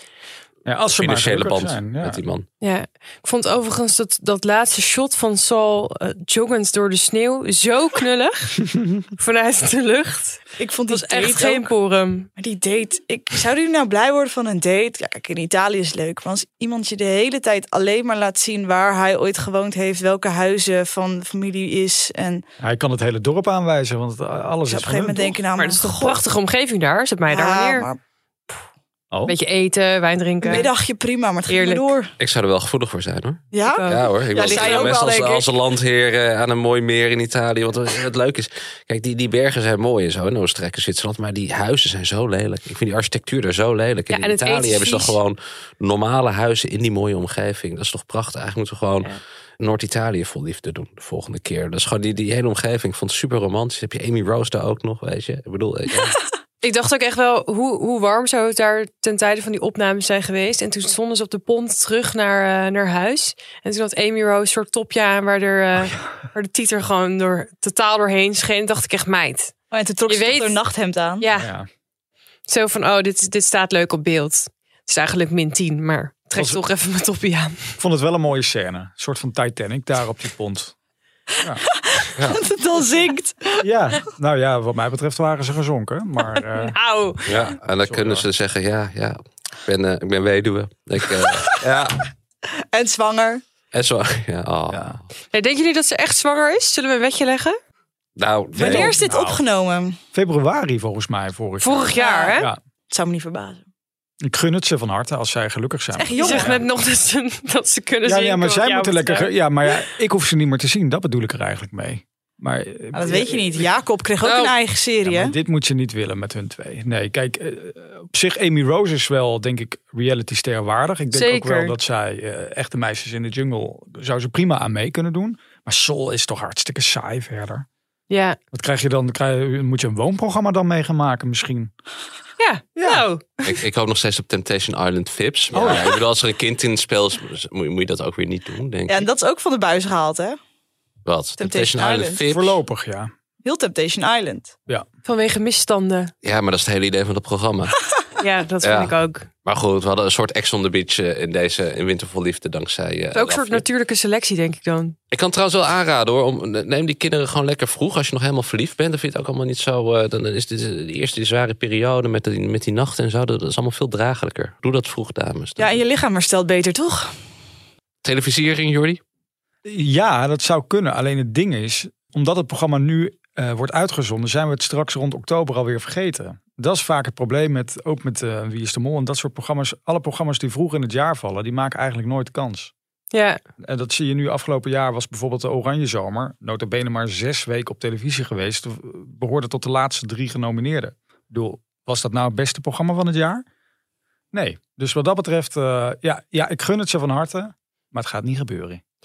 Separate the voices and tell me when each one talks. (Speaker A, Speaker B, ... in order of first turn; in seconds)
Speaker A: 0.7-2.2, 22.6-25.4, 71.3-71.7, 76.3-76.6, 77.8-80.7, 83.6-88.3, 94.7-95.0, 98.5-99.4, 100.1-102.6, 104.2-106.6, 108.0-113.7, 115.0-127.7, 128.5-131.7, 132.8-133.0, 135.5-136.0, 142.3-143.1, 169.6-182.7, 183.6-193.4, 194.3-198.8
Speaker B: 1.0-2.4, 32.2-56.2, 87.2-92.0, 93.7-95.0, 98.2-98.9, 114.2-114.5, 133.4-139.1, 141.1-142.6, 146.2-147.8, 148.6-148.9, 149.4-153.6, 155.1-165.8, 168.0-169.0
Speaker C: 2.6-12.3, 25.6-27.9, 29.3-30.7, 31.5-31.9, 33.6-35.0, 44.1-45.2, 56.6-69.5, 70.1-70.6, 71.2-71.5, 72.5-77.7, 86.3-87.2, 95.3-97.6, 101.6-102.5, 106.2-109.3, 121.1-121.8, 128.1-128.4, 132.4-133.4, 145.0-146.1, 148.2-149.3, 153.1-154.9, 183.1-183.4
Speaker D: 10.6-11.7, 12.4-22.4, 24.7-26.2, 27.3-28.0, 30.4-32.1, 33.5-35.5, 69.7-71.2, 81.7-83.7, 92.7-93.4, 98.6-100.0, 102.0-103.6, 105.9-106.6, 112.9-115.3, 138.9-140.4, 141.4-142.2, 143.4-144.5, 165.6-167.1